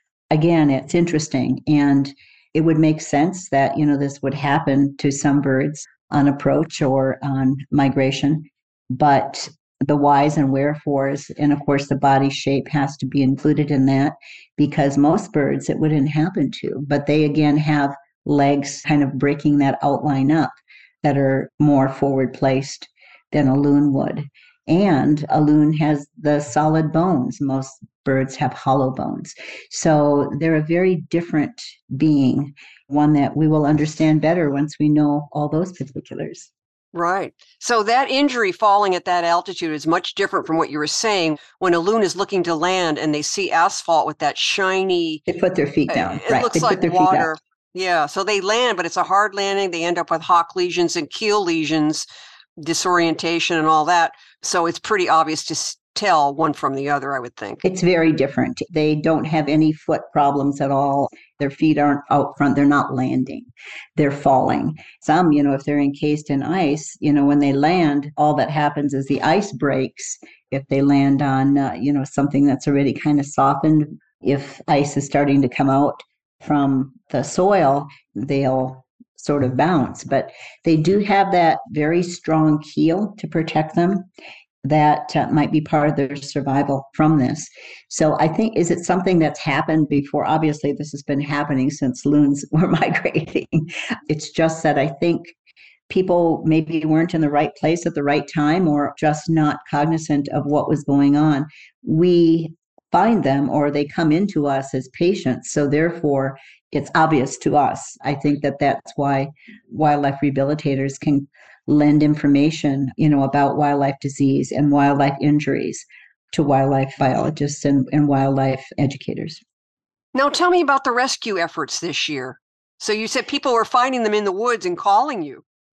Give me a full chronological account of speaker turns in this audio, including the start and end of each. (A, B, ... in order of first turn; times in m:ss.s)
0:00.3-0:36.5 A
0:36.9-0:45.2 B
0:45.3-0:47.3 A
0:45.9-0:57.6 B
0:57.6-1:24.0 A
1:24.6-1:35.3 A
1:35.9-1:59.4 A
2:00.1-2:05.4 B